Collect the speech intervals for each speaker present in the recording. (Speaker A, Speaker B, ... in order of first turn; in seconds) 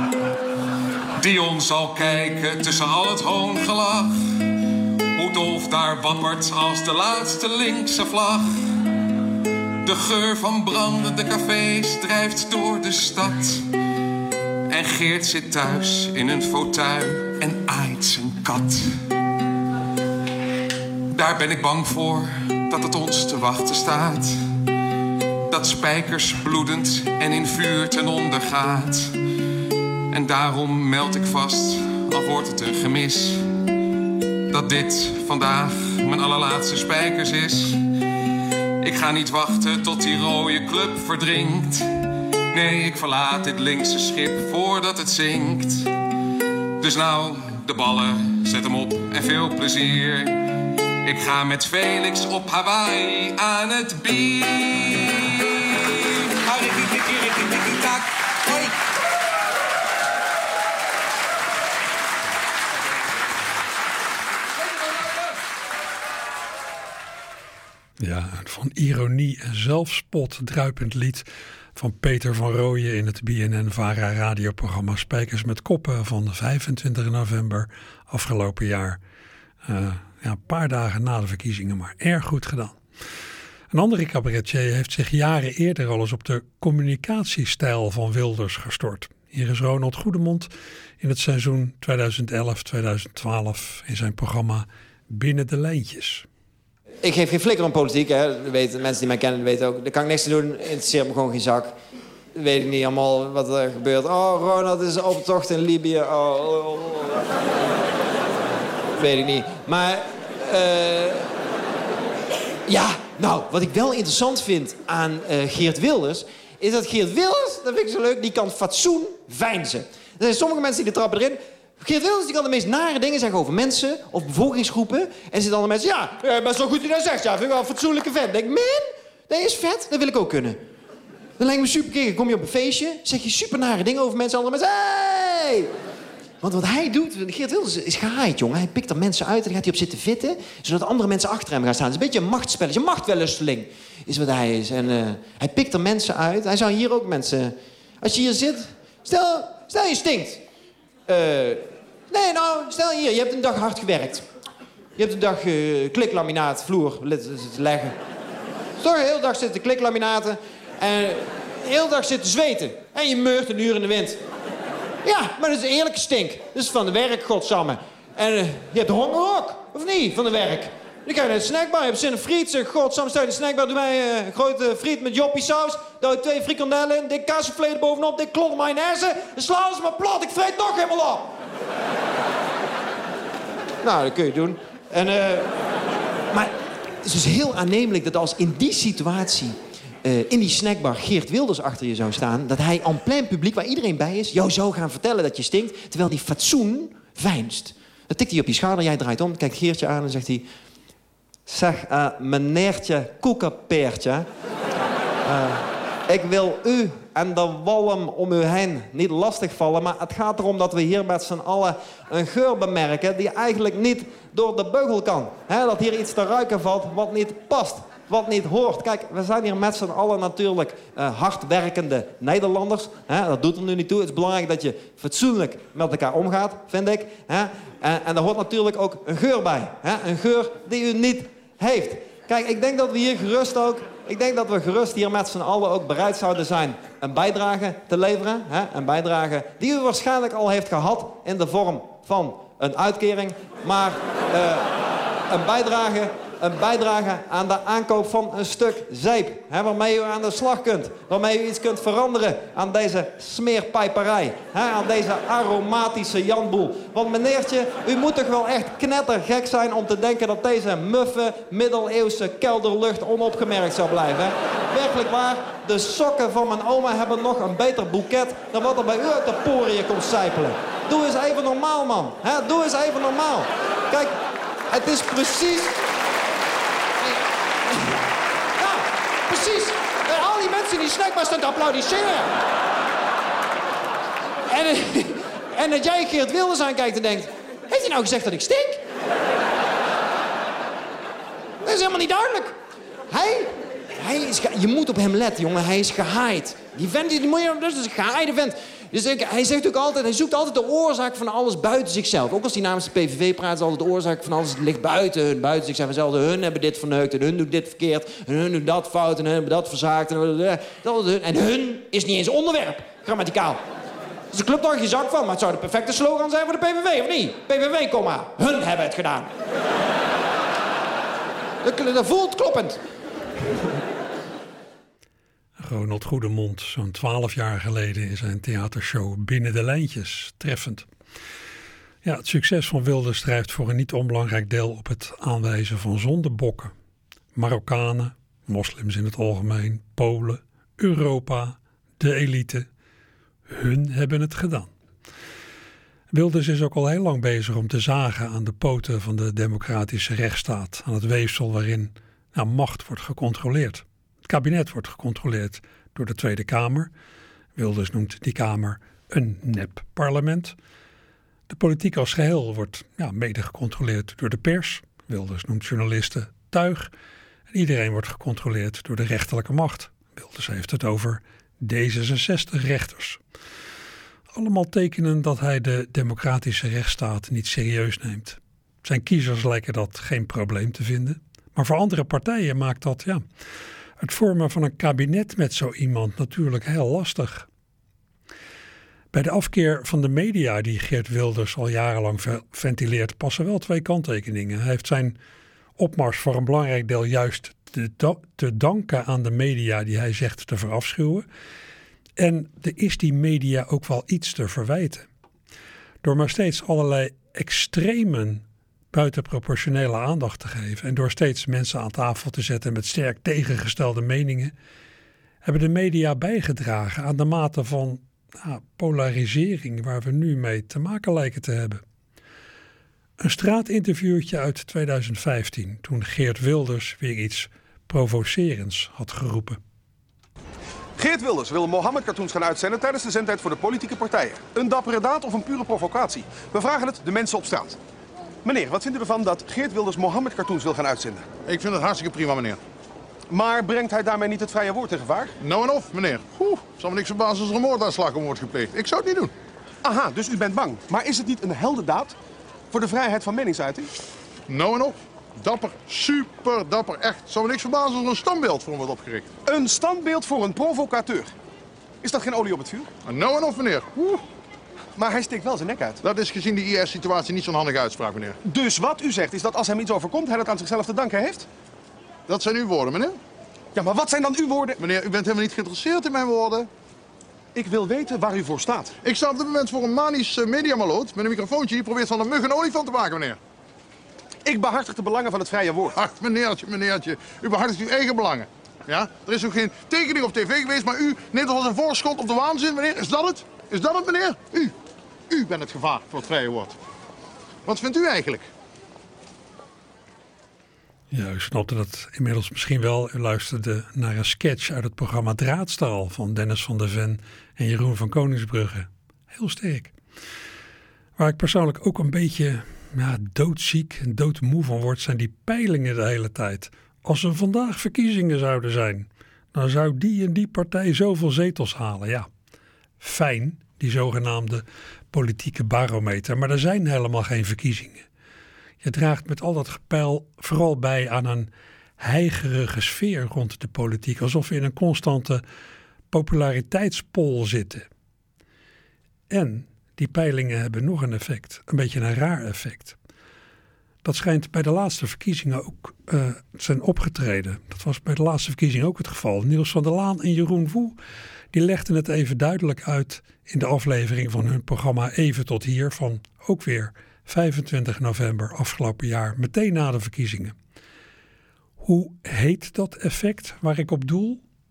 Speaker A: 1.2-4.4, 5.1-8.7, 9.8-13.7, 14.7-18.9, 21.1-24.4, 25.5-29.2, 30.1-33.5, 34.5-37.8, 38.8-41.9, 42.5-45.9, 46.8-50.5, 51.0-58.8
Speaker B: 68.0-71.2, 71.8-79.0, 79.7-82.8, 83.7-90.5, 91.0-96.2, 325.6-330.9, 332.0-336.7, 337.3-342.7, 343.5-344.7, 346.1-356.9, 357.6-360.5, 361.5-366.9, 367.5-373.2, 374.3-383.2, 384.0-387.5, 389.1-395.1, 395.8-401.2, 402.2-405.1, 406.0-414.5, 415.4-421.8, 423.2-429.6, 501.1-509.9, 511.2-522.3, 523.0-528.0, 528.8-535.4, 536.1-537.9, 539.3-543.0, 544.0-551.0, 551.5-560.5, 561.8-564.4
Speaker C: 97.0-101.7, 102.3-107.2, 109.0-111.3, 112.7-130.6, 131.4-135.7, 136.4-150.4, 151.1-154.2, 154.9-157.9, 158.8-164.2, 165.0-181.3, 183.8-185.5, 186.3-200.4, 201.5-204.3, 205.2-244.7, 245.3-274.1, 274.7-275.8, 278.6-282.3, 284.5-288.8, 291.6-292.5, 293.1-313.6, 314.3-319.3, 321.6-322.8
Speaker D: 431.0-437.8, 438.4-441.3, 443.3-445.3, 449.8-452.1, 452.7-453.9, 459.4-461.3, 462.0-462.9, 464.9-466.0, 468.4-471.5, 473.7-474.8, 477.5-479.0, 484.4-485.9
Speaker E: 441.4-442.6, 445.4-449.3, 454.5-459.3, 463.1-464.1, 466.0-468.4, 472.3-473.2, 474.8-476.7, 479.0-483.4, 485.9-494.7, 495.3-496.8, 497.6-498.5